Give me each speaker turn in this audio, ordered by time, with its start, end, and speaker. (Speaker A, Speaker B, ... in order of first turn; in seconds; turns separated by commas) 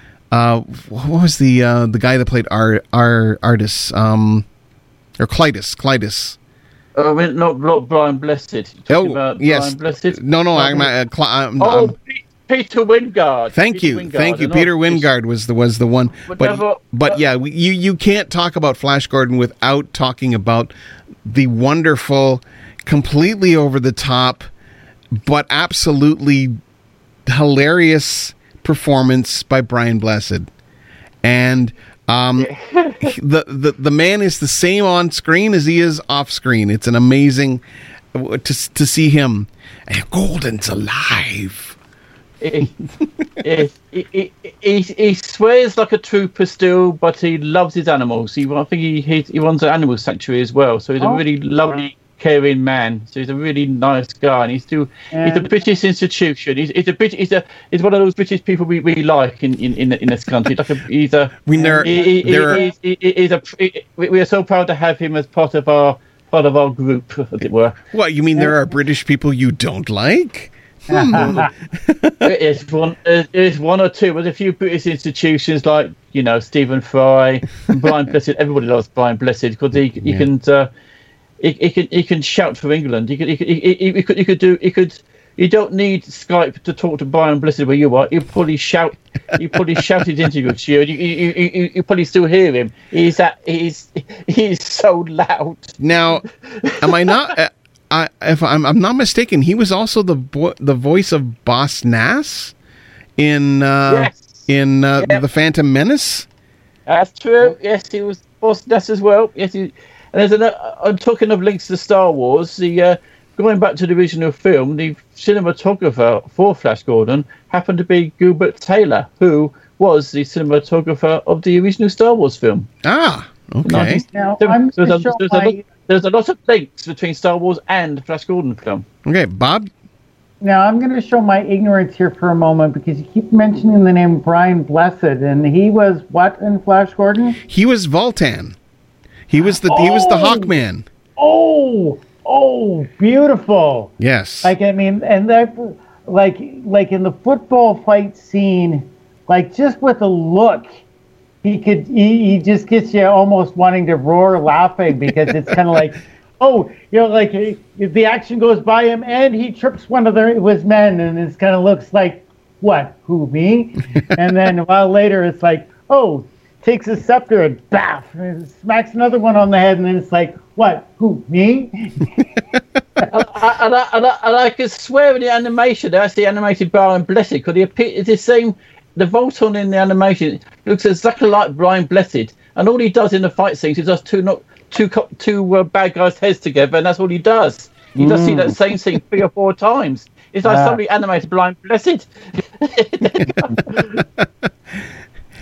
Speaker A: 0.3-4.5, Speaker A: 5.2-6.4, Speaker B: 6.9-10.9, Speaker A: 8.9-11.9, Speaker B: 11.6-15.1, Speaker A: 13.5-20.7, Speaker B: 16.3-17.2, Speaker A: 21.2-24.5, Speaker A: 25.2-26.6, Speaker A: 27.2-30.5, Speaker A: 31.2-32.5, Speaker B: 32.4-33.1, Speaker A: 33.0-37.6, Speaker A: 38.1-41.8, Speaker B: 42.4-42.7, Speaker B: 43.4-67.8, Speaker C: 55.1-55.7, Speaker A: 61.4-62.6, Speaker C: 61.5-62.7, Speaker A: 67.9-72.3, Speaker C: 68.4-68.7, Speaker C: 70.9-71.5, Speaker B: 71.2-71.4, Speaker B: 72.2-80.7, Speaker A: 80.0-80.3, Speaker B: 81.4-95.8, Speaker A: 95.8-96.2, Speaker B: 96.4-97.2, Speaker A: 96.8-102.5, Speaker A: 103.2-106.3, Speaker B: 103.9-104.5, Speaker B: 106.9-122.7, Speaker A: 122.8-124.0, Speaker B: 123.6-128.8, Speaker C: 124.1-125.7, Speaker A: 129.0-129.7, Speaker C: 130.4-137.4, Speaker A: 137.4-138.6, Speaker A: 139.3-140.8, Speaker C: 139.7-140.5, Speaker C: 141.2-150.8, Speaker A: 144.0-144.5, Speaker C: 151.4-172.2, Speaker B: 173.1-193.9, Speaker C: 187.9-188.6, Speaker C: 190.4-190.8, Speaker C: 193.2-193.6, Speaker A: 193.9-194.9